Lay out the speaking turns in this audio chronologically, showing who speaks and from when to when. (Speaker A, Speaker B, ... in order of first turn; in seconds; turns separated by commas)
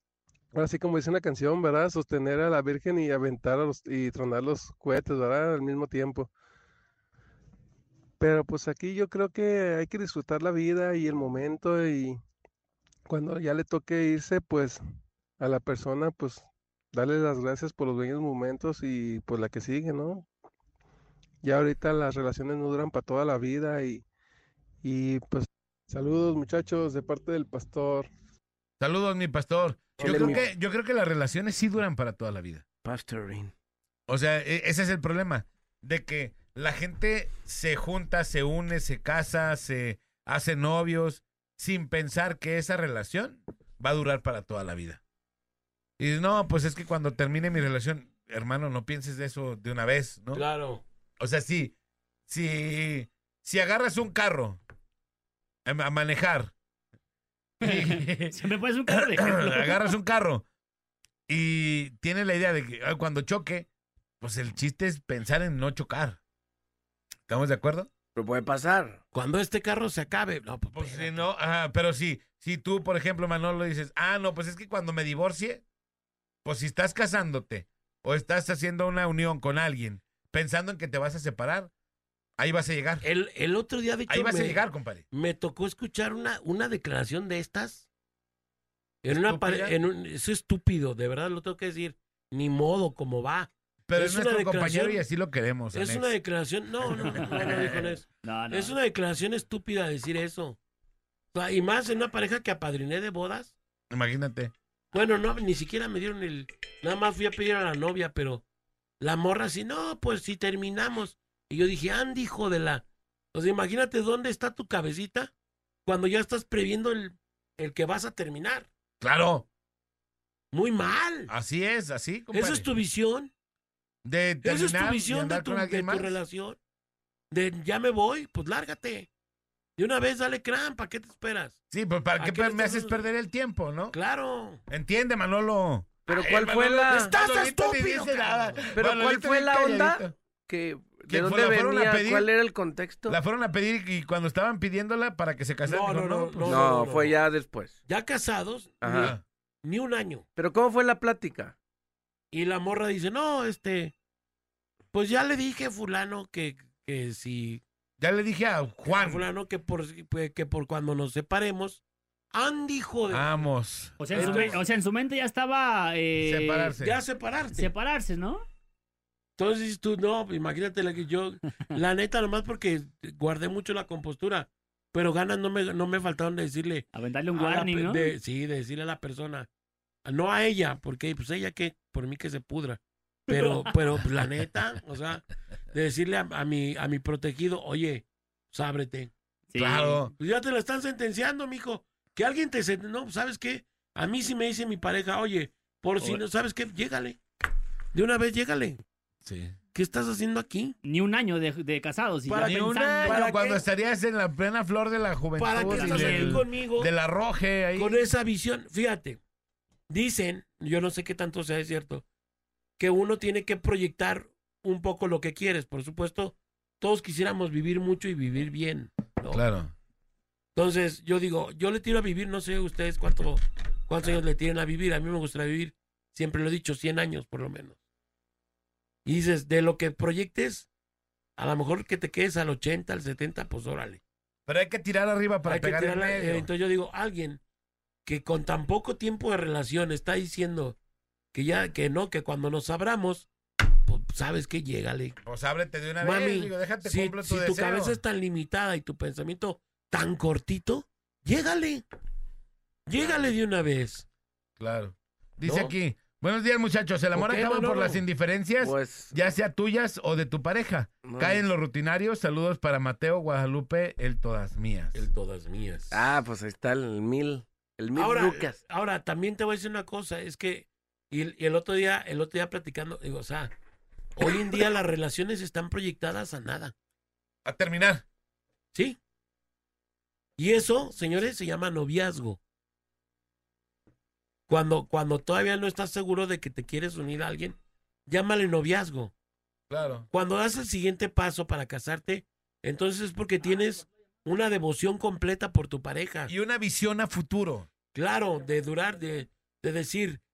Speaker A: 0.5-6.3, Speaker A: 8.2-12.2, Speaker A: 13.1-14.8, Speaker A: 15.4-20.2, Speaker A: 21.4-24.0, Speaker A: 24.8-28.1, Speaker B: 28.8-32.6, Speaker C: 30.0-30.4, Speaker D: 30.0-30.5, Speaker D: 32.8-33.5, Speaker B: 34.1-45.0, Speaker B: 46.0-50.5, Speaker C: 50.3-50.8, Speaker B: 51.2-51.7, Speaker B: 52.3-54.6, Speaker B: 55.6-56.5, Speaker B: 57.6-58.4, Speaker E: 57.6-59.9, Speaker B: 58.9-60.4, Speaker B: 61.3-63.7, Speaker B: 64.2-66.2, Speaker B: 67.3-67.9, Speaker D: 68.1-69.0, Speaker C: 69.1-71.2, Speaker B: 70.7-75.6, Speaker B: 76.4-81.7, Speaker B: 82.4-83.0, Speaker C: 83.0-87.9, Speaker B: 84.1-85.0, Speaker C: 89.0-95.0, Speaker B: 89.1-89.8, Speaker B: 93.9-96.1, Speaker C: 95.7-100.6, Speaker E: 97.1-97.7, Speaker B: 97.4-97.8, Speaker E: 98.2-98.7, Speaker C: 101.3-103.5, Speaker B: 103.9-104.5, Speaker C: 104.9-108.4, Speaker C: 109.0-115.3, Speaker C: 115.8-118.7, Speaker B: 119.0-119.5, Speaker C: 120.5-121.3, Speaker B: 121.3-122.7, Speaker C: 122.3-123.3, Speaker B: 124.0-126.2, Speaker C: 124.4-126.6, Speaker C: 127.3-129.1, Speaker C: 129.8-131.6, Speaker B: 131.7-133.9, Speaker C: 132.2-133.0, Speaker C: 133.9-134.6, Speaker B: 134.7-140.1, Speaker D: 136.1-137.1, Speaker C: 136.9-138.7, Speaker D: 138.7-143.2, Speaker B: 141.1-142.3, Speaker B: 143.1-146.6, Speaker C: 145.6-147.2, Speaker D: 146.4-147.8, Speaker C: 147.8-150.2, Speaker D: 148.8-149.1, Speaker B: 148.9-149.2, Speaker D: 150.3-151.5, Speaker C: 152.3-153.9, Speaker C: 154.9-157.6, Speaker B: 158.0-159.2, Speaker C: 158.9-161.8, Speaker C: 162.3-163.4, Speaker B: 163.1-164.6, Speaker E: 164.0-166.7, Speaker C: 164.1-164.6, Speaker B: 166.2-167.0, Speaker C: 166.8-167.7, Speaker E: 167.5-168.4, Speaker C: 169.4-179.5, Speaker E: 176.9-178.1, Speaker C: 180.0-189.1, Speaker E: 189.5-190.0, Speaker B: 189.6-190.1, Speaker C: 190.2-197.2, Speaker C: 197.9-198.8, Speaker B: 199.2-199.6, Speaker C: 199.7-200.8, Speaker E: 200.8-203.2, Speaker B: 202.3-208.0, Speaker C: 202.3-203.6, Speaker C: 205.4-206.9, Speaker E: 205.7-206.4, Speaker C: 207.8-209.2, Speaker C: 209.9-212.0, Speaker C: 212.8-219.4, Speaker B: 219.3-219.7, Speaker C: 220.5-227.8, Speaker C: 229.0-230.7, Speaker C: 231.4-234.0, Speaker B: 234.4-236.5, Speaker C: 235.4-237.4, Speaker C: 238.0-240.8, Speaker C: 241.3-243.3, Speaker C: 243.9-245.2, Speaker B: 245.2-248.0, Speaker C: 246.0-251.8, Speaker C: 252.8-254.1, Speaker B: 253.0-253.3, Speaker B: 254.6-265.1, Speaker C: 255.4-255.7, Speaker C: 257.1-258.0, Speaker D: 258.6-259.1, Speaker D: 261.0-261.4, Speaker C: 264.9-266.1, Speaker D: 265.9-268.6, Speaker C: 267.9-273.5, Speaker C: 274.2-276.7, Speaker B: 277.4-278.0, Speaker C: 278.7-279.0, Speaker C: 280.4-282.4, Speaker C: 284.5-289.1, Speaker B: 289.7-290.1, Speaker C: 290.1-296.3, Speaker B: 296.3-297.7, Speaker C: 297.9-300.2